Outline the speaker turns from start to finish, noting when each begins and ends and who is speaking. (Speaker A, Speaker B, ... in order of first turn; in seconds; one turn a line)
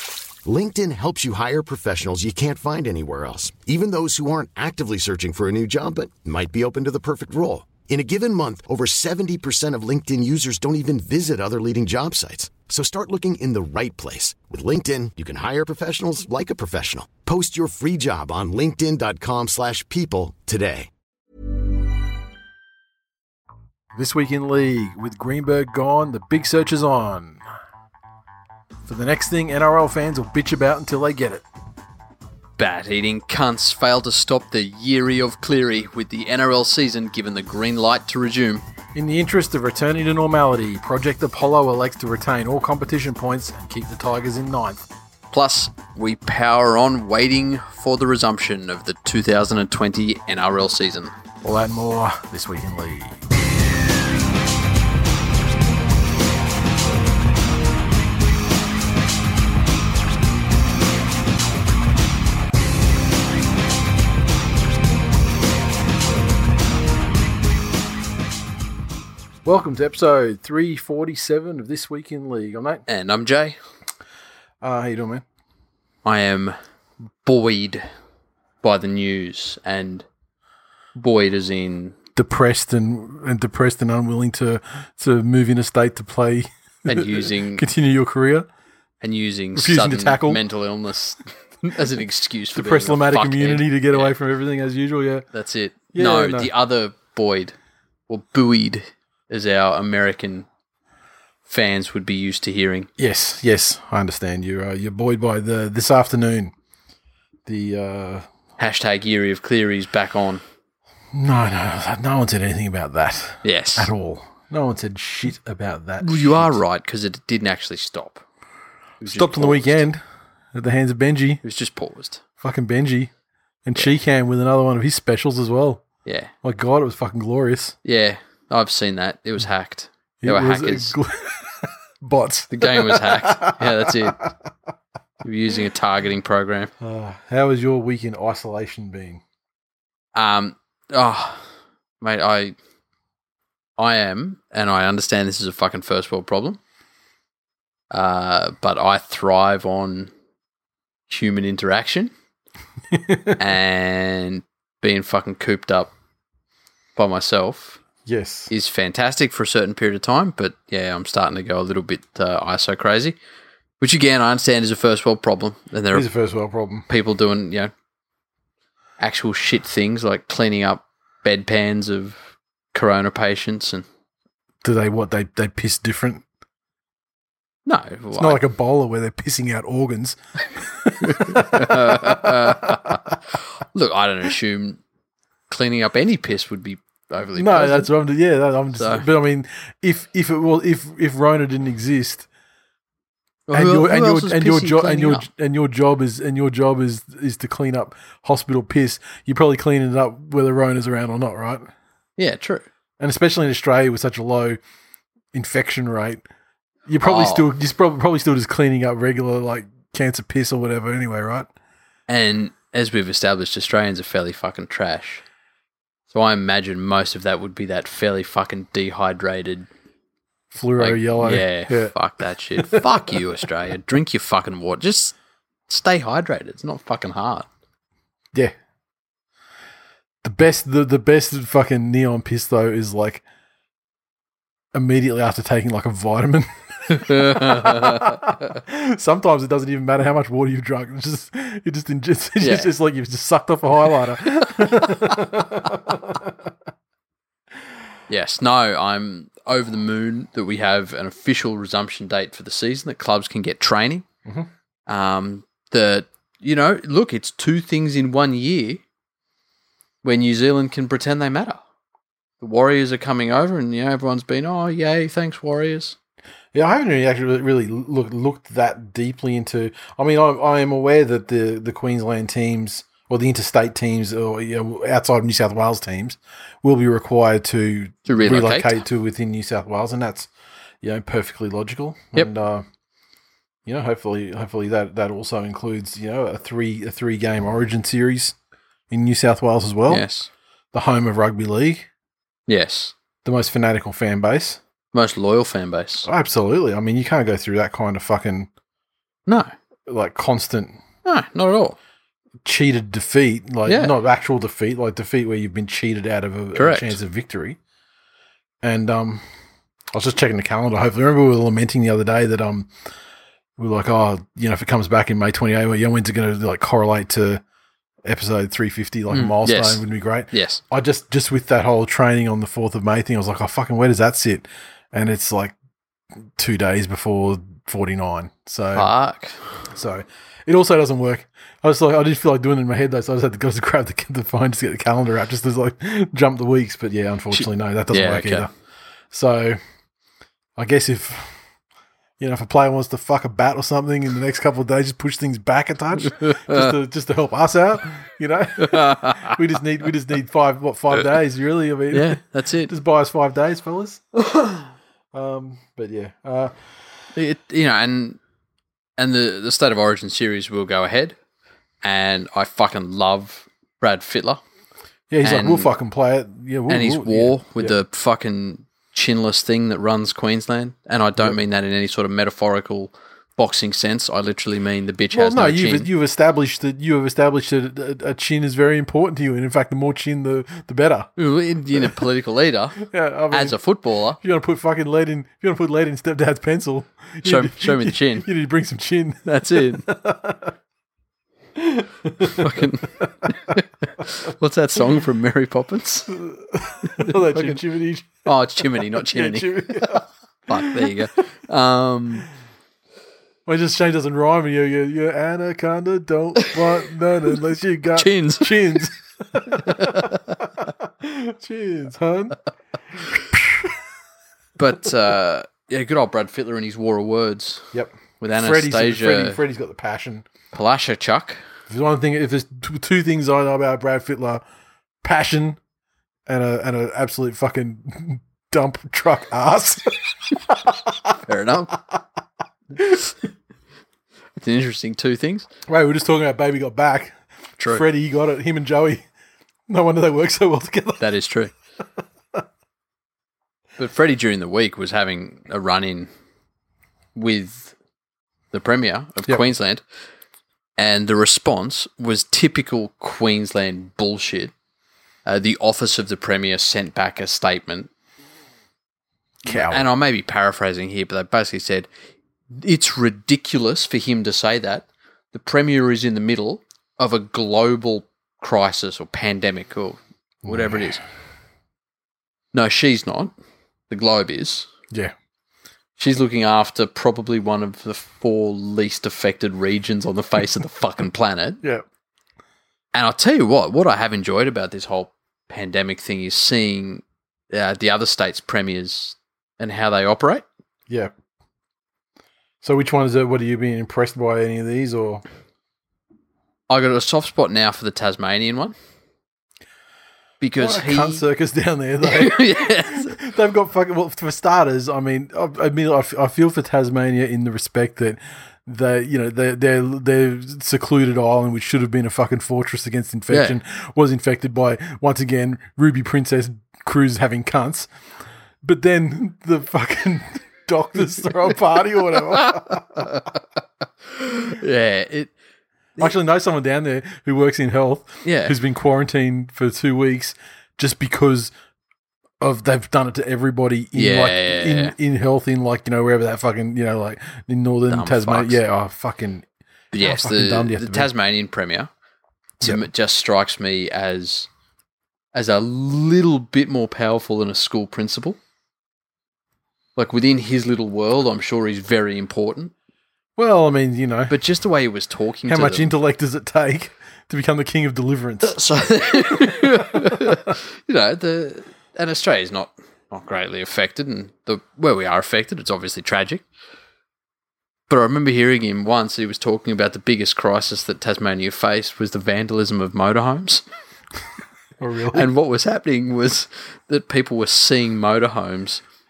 Speaker A: 0.4-20.9
Speaker B: 23.9-27.4
Speaker B: 28.9-31.4
Speaker C: 32.6-38.6
Speaker B: 38.9-44.8
Speaker C: 45.3-51.2
Speaker B: 51.4-53.2
Speaker B: 69.4-72.8
Speaker C: 72.9-73.6
Speaker B: 74.6-75.2
Speaker C: 76.0-76.5
Speaker C: 77.2-77.8
Speaker C: 78.6-80.0
Speaker C: 80.9-82.0
Speaker B: 82.2-88.5
Speaker C: 86.9-87.6
Speaker C: 89.0-94.1
Speaker B: 89.5-90.4
Speaker B: 92.5-95.2
Speaker C: 95.3-97.5
Speaker B: 95.9-96.5
Speaker C: 98.1-100.5
Speaker C: 101.5-102.9
Speaker B: 103.0-106.5
Speaker B: 107.5-108.2
Speaker C: 108.6-110.4
Speaker B: 111.1-116.6
Speaker C: 113.4-113.9
Speaker C: 116.0-118.2
Speaker C: 119.0-119.8
Speaker B: 119.1-120.0
Speaker B: 120.5-121.4
Speaker C: 121.4-122.2
Speaker B: 122.4-123.1
Speaker B: 123.6-125.8
Speaker C: 126.0-126.3
Speaker B: 126.4-127.7
Speaker C: 127.8-130.9
Speaker B: 130.2-134.3
Speaker C: 132.5-134.2
Speaker C: 135.2-136.7
Speaker B: 136.8-139.2
Speaker C: 140.1-141.5
Speaker C: 142.0-142.6
Speaker C: 143.8-146.6
Speaker C: 147.9-150.1
Speaker C: 151.1-152.1
Speaker B: 152.9-153.4
Speaker C: 153.4-155.9
Speaker C: 156.9-157.8
Speaker B: 158.1-158.5
Speaker C: 158.5-163.2
Speaker C: 163.8-166.1
Speaker B: 165.9-166.9
Speaker C: 166.9-167.7
Speaker C: 169.0-173.8
Speaker B: 174.6-176.2
Speaker C: 177.7-178.4
Speaker B: 178.2-183.0
Speaker C: 181.0-184.8
Speaker C: 185.5-187.9
Speaker B: 187.3-192.3
Speaker C: 188.8-189.0
Speaker C: 193.5-195.2
Speaker B: 193.5-201.7
Speaker C: 202.2-202.7
Speaker B: 203.0-204.6
Speaker B: 205.3-206.2
Speaker B: 206.9-211.5
Speaker C: 207.0-207.4
Speaker C: 212.1-215.2
Speaker C: 216.1-219.7
Speaker B: 220.5-221.9
Speaker C: 220.8-225.1
Speaker B: 222.6-222.9
Speaker C: 225.7-227.5
Speaker B: 230.2-233.2
Speaker B: 234.7-246.5
Speaker C: 236.9-238.3
Speaker C: 242.4-242.7
Speaker C: 244.3-245.4
Speaker C: 248.1-254.1
Speaker C: 254.9-258.8
Speaker C: 260.0-261.6
Speaker C: 262.4-265.9
Speaker B: 266.5-280.3
Speaker C: 278.1-278.8
Speaker B: 280.8-282.6
Speaker B: 283.6-288.3
Speaker B: 288.9-290.0
Speaker C: 289.9-290.3
Speaker B: 290.7-291.9
Speaker C: 292.5-292.9
Speaker B: 293.2-294.6
Speaker C: 294.9-296.1
Speaker B: 296.1-298.5
Speaker C: 299.3-299.5
Speaker B: 299.9-300.8
Speaker C: 301.0-301.8
Speaker B: 302.4-307.6
Speaker C: 303.7-303.9
Speaker C: 306.5-307.0
Speaker B: 308.6-309.2
Speaker B: 309.9-312.7
Speaker B: 313.6-317.4
Speaker B: 318.0-325.5
Speaker C: 319.1-320.6
Speaker B: 326.4-328.9
Speaker C: 328.7-329.4
Speaker B: 329.7-338.5
Speaker C: 337.3-338.5
Speaker B: 339.1-339.6
Speaker B: 340.6-341.4
Speaker B: 342.2-354.0
Speaker C: 346.0-346.7
Speaker C: 348.6-349.4
Speaker C: 351.9-352.7
Speaker C: 354.1-354.7
Speaker B: 355.1-356.5
Speaker C: 357.1-358.2
Speaker C: 359.0-361.1
Speaker C: 361.8-364.4
Speaker B: 365.1-367.8
Speaker C: 365.2-365.7
Speaker C: 366.7-375.9
Speaker B: 375.1-381.1
Speaker C: 381.2-384.2
Speaker B: 382.8-383.6
Speaker B: 384.2-390.5
Speaker C: 387.2-388.3
Speaker C: 389.2-389.9
Speaker B: 391.6-393.5
Speaker C: 392.2-396.2
Speaker B: 396.1-401.0
Speaker C: 396.8-397.6
Speaker C: 398.2-402.2
Speaker B: 403.4-412.4
Speaker C: 407.9-408.8
Speaker C: 409.5-410.3
Speaker B: 412.9-413.8
Speaker C: 414.6-417.7
Speaker B: 417.7-420.2
Speaker C: 418.2-419.4
Speaker C: 420.5-421.4
Speaker B: 421.7-424.4
Speaker B: 425.0-425.6
Speaker B: 426.2-431.2
Speaker C: 431.2-431.8
Speaker B: 432.8-433.1
Speaker C: 434.4-435.5
Speaker B: 435.7-437.1
Speaker C: 437.6-437.8
Speaker B: 437.7-439.1
Speaker B: 439.7-441.1
Speaker C: 441.0-441.5
Speaker C: 443.8-446.1
Speaker C: 447.1-447.7
Speaker C: 448.5-449.8
Speaker C: 450.8-454.5
Speaker C: 455.2-457.9
Speaker B: 459.4-459.9
Speaker C: 459.5-461.9
Speaker C: 462.5-471.0
Speaker B: 470.4-470.9
Speaker C: 472.5-473.3
Speaker C: 473.9-474.7
Speaker C: 476.0-481.6
Speaker C: 482.9-490.4
Speaker B: 492.6-495.2
Speaker C: 496.7-498.7
Speaker C: 500.4-501.2
Speaker B: 500.6-517.9
Speaker C: 502.0-503.1
Speaker C: 513.3-513.6
Speaker B: 518.6-523.1
Speaker C: 522.3-523.4
Speaker C: 524.1-525.3
Speaker B: 526.0-531.5
Speaker C: 528.2-528.5
Speaker B: 532.4-539.5
Speaker C: 533.9-534.9
Speaker C: 537.9-538.6
Speaker C: 539.9-541.9
Speaker B: 540.0-541.1
Speaker C: 542.6-544.5
Speaker C: 545.3-548.4
Speaker C: 550.0-552.7
Speaker B: 553.4-554.3
Speaker C: 554.3-555.9
Speaker B: 555.5-558.6
Speaker C: 558.4-566.4
Speaker B: 559.3-560.5
Speaker C: 567.9-573.6
Speaker B: 574.8-575.3
Speaker C: 575.1-578.8